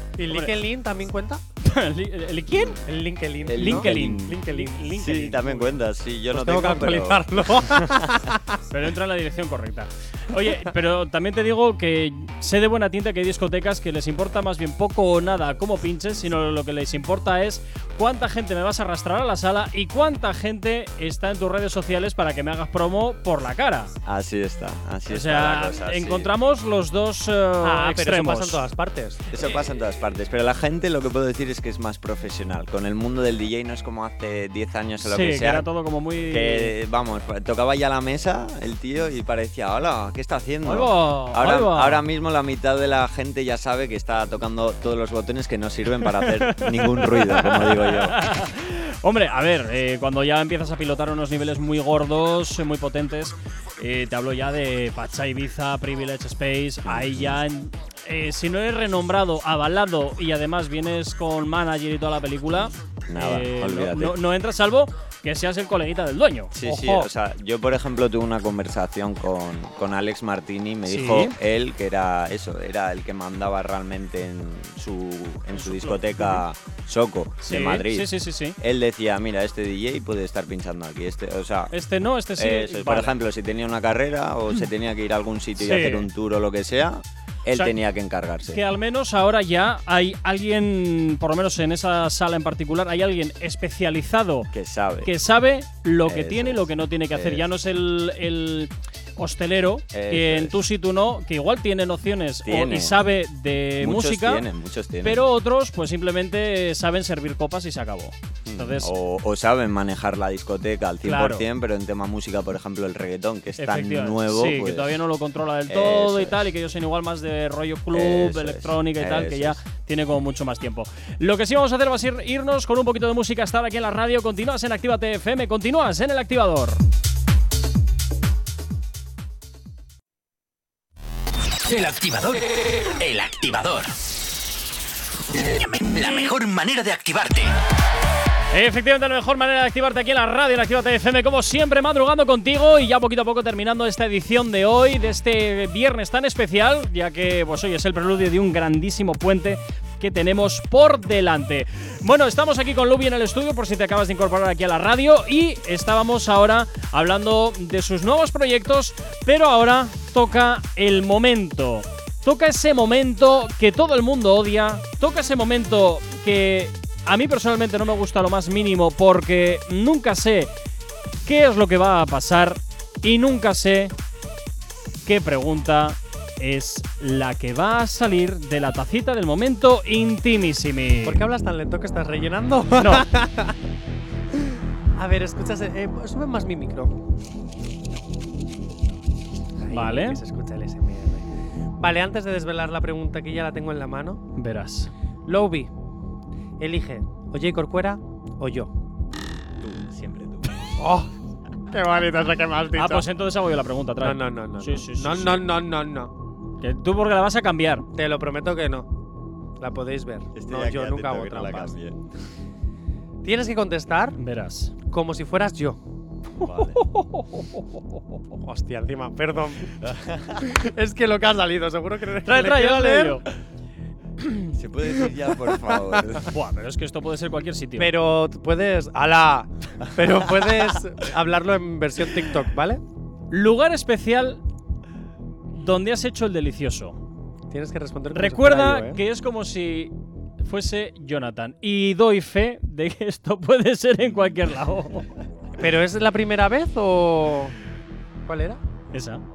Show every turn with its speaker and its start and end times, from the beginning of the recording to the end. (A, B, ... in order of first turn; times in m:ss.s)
0:00.2-0:01.4 A
0:00.3-0:00.6 B
0:01.6-0:02.8 B
0:02.9-0:05.0 A
0:03.4-0:08.3 C
0:03.5-0:05.8 B
0:06.3-0:08.6 A
0:08.7-0:23.9 B
0:24.0-0:26.3 C
0:25.1-0:28.6 B
0:27.6-0:29.3 A
0:29.3-0:35.7 C
0:35.0-0:36.7 B
0:36.3-0:48.2 C
0:40.6-0:42.0 B
0:46.2-1:06.6 B
0:56.8-0:57.4 C
1:03.1-1:04.2 C
1:06.5-1:21.7 C
1:06.6-1:07.1 A
1:10.9-1:11.3 B
1:15.5-1:16.4 B
1:17.4-1:18.6 B
1:21.7-1:23.2 B
1:22.4-1:28.6 C
1:25.6-1:26.1 B
1:28.5-1:34.5 B
1:34.5-1:35.1 C
1:35.0-1:44.5 B
1:36.0-1:37.5 C
1:39.9-1:40.6 C
1:42.4-1:43.0 C
1:43.8-1:45.3 C
1:45.0-1:48.9 B
1:48.4-1:55.0 C
1:51.0-1:51.5 B
1:53.6-2:06.8 B
1:55.7-1:56.5 C
1:57.9-1:59.6 C
2:11.6-2:13.9 D
2:15.3-2:17.5 D
2:18.5-2:50.5 B
2:51.3-2:53.9 B
2:55.0-3:01.2 B
3:01.0-3:03.6 A
3:02.8-3:03.1 B
3:05.0-3:07.0 A
3:09.6-3:11.3 A
3:09.7-3:10.2 B
3:11.8-3:14.2 A
3:14.4-3:14.9 B
3:15.3-3:15.7 A
3:16.6-3:18.7 A
3:19.6-3:20.7 C
3:20.8-3:21.1 A
3:21.7-3:23.1 A
3:22.7-3:25.5 B
3:24.0-3:26.1 A
3:26.6-3:27.9 B
3:28.0-3:28.9 A
3:29.6-3:31.7 A
3:30.4-3:32.0 C
3:33.2-3:34.2 A
3:34.2-3:34.7 B
3:34.9-3:35.8 A
3:36.4-3:37.6 B
3:36.4-3:36.8 C
3:38.4-3:43.2 A
3:39.8-3:40.4 C
3:42.2-3:43.2 B
3:44.5-3:46.3 C
3:45.7-3:46.0 A
3:46.3-3:47.9 B
3:47.8-3:52.8 A
3:53.3-3:54.4 B
3:55.5-3:57.0 B
3:57.5-3:59.0 A
3:58.1-4:05.1 B
4:05.6-4:07.6 A
4:08.3-4:08.6 A
4:08.9-4:09.2 B